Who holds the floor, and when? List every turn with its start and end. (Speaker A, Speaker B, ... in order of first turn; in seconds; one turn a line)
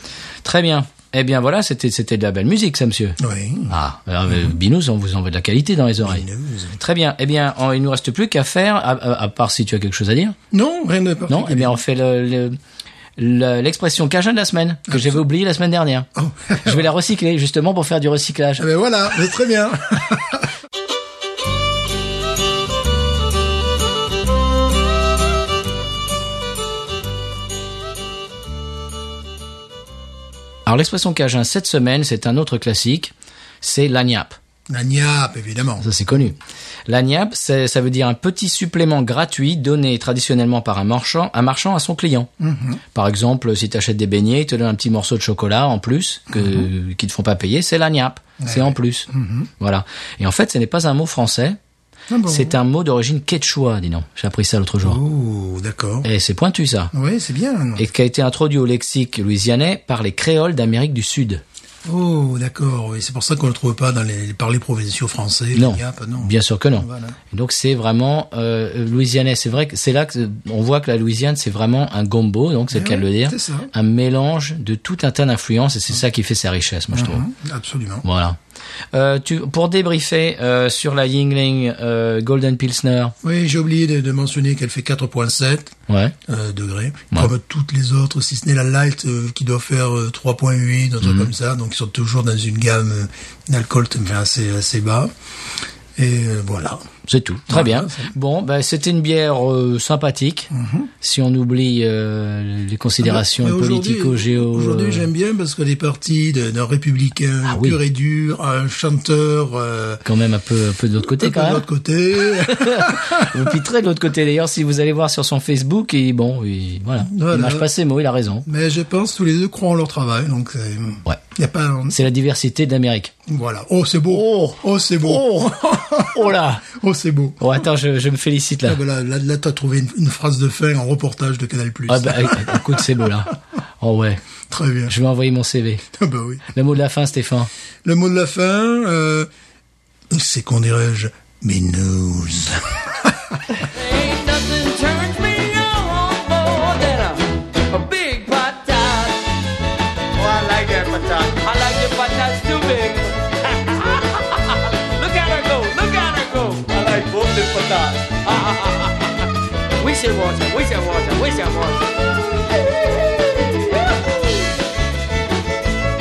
Speaker A: 0.4-6.2
Speaker B: 3.2-3.8
Speaker B: 4.3-4.5
Speaker B: 6.0-6.8
Speaker A: 6.8-10.4
Speaker B: 10.5-11.8
Speaker A: 11.3-12.6
Speaker A: 13.2-16.1
Speaker B: 14.9-15.2
Speaker B: 16.1-16.9
Speaker A: 16.6-18.6
Speaker B: 18.6-20.5
Speaker A: 30.6-34.4
Speaker B: 34.7-35.9
Speaker A: 35.8-42.3
Speaker B: 42.4-42.8
Speaker A: 42.9-49.1
Speaker B: 46.3-46.7
Speaker B: 48.4-49.5
Speaker A: 49.6-51.6
Speaker B: 52.1-52.6
Speaker A: 52.2-55.0
Speaker B: 54.8-56.1
Speaker A: 56.0-56.9
Speaker B: 56.9-57.9
Speaker A: 57.8-61.4
Speaker B: 61.8-67.2
Speaker A: 65.5-77.2
Speaker B: 72.7-73.7
Speaker B: 76.9-78.0
Speaker A: 78.0-78.4
Speaker A: 78.9-83.1
Speaker B: 83.2-85.7
Speaker A: 85.9-86.2
Speaker B: 86.2-95.1
Speaker A: 91.0-91.3
Speaker B: 96.0-96.8
Speaker A: 97.1-105.1
Speaker B: 97.5-98.1
Speaker B: 100.5-100.9
Speaker B: 103.0-110.0
Speaker A: 107.4-107.8
Speaker A: 110.0-111.6
Speaker B: 111.0-113.5
Speaker A: 112.3-118.4
Speaker B: 117.0-117.7
Speaker B: 118.4-122.0
Speaker A: 121.9-123.1
Speaker B: 123.3-127.5
Speaker A: 124.1-126.6
Speaker A: 127.4-128.8
Speaker B: 128.7-133.3
Speaker A: 131.9-134.2
Speaker B: 134.5-134.9
Speaker A: 134.9-135.8
Speaker B: 135.9-136.5
Speaker A: 136.5-137.5
Speaker B: 137.8-139.3
Speaker B: 140.1-143.6
Speaker C: 143.7-149.3
Speaker C: 150.1-161.9
Speaker C: 163.6-164.2